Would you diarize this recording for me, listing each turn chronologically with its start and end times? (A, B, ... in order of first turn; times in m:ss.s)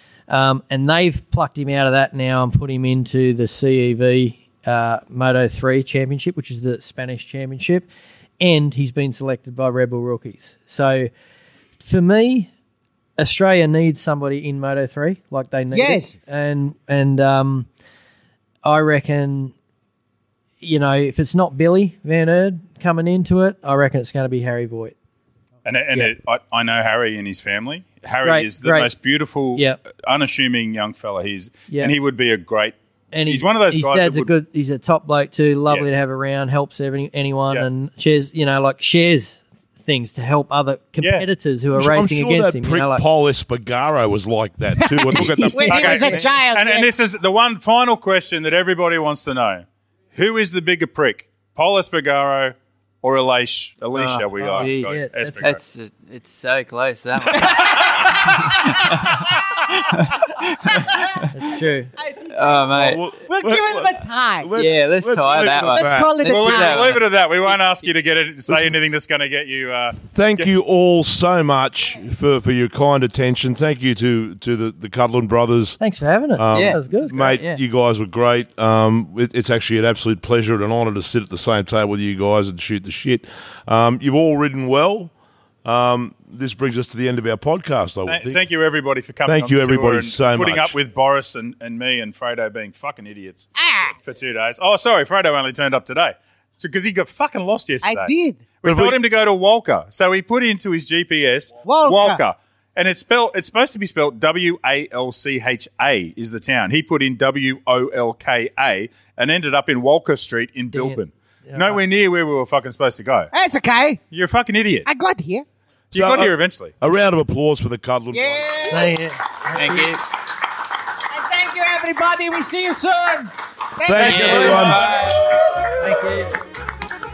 0:00.3-0:07.9 A
0:08.4-0:11.1 A
0:11.8-0:12.5 A
0:13.2-0:17.7 A
0:15.7-0:16.2 B
0:18.6-0:19.5 A
0:20.6-0:24.9 A
0:25.6-0:32.8 C
0:28.2-0:28.9 A
0:29.5-0:29.8 A
0:33.1-0:43.0 A
0:33.3-0:34.3 C
0:41.0-0:41.2 C
0:41.8-0:46.3 D
0:45.0-0:46.9 B
0:45.7-0:55.6 C
0:54.0-1:00.8 E
0:54.4-0:55.5 A
0:57.4-0:58.1 B
1:01.3-1:01.9 A
1:02.0-1:04.6 B
1:02.3-1:03.0 E
1:02.8-1:06.1 D
1:04.6-1:07.1 E
1:05.3-1:07.0 B
1:06.2-1:10.5 C
1:08.5-1:08.7 D
1:10.0-1:15.8 D
1:15.8-1:17.2 A
1:16.4-1:25.1 D
1:16.5-1:17.6 E
1:25.6-1:28.4 D
1:28.1-1:33.5 C
1:29.3-1:30.8 D
1:33.6-1:34.0 B
1:34.0-1:53.3 C
1:37.8-1:38.4 B
1:38.6-1:39.0 D
1:41.6-1:42.2 B
1:50.7-1:51.8 A
1:53.3-1:54.0 B
1:54.1-1:54.9 C
1:54.9-1:55.4 B
1:55.9-1:56.7 C
1:55.9-1:58.5 D
1:58.1-1:59.0 B
1:58.7-2:00.0 A
1:59.5-2:00.0 E
2:01.1-2:05.2 B
2:03.8-2:05.1 D
2:04.0-2:04.8 E
2:05.8-2:06.3 A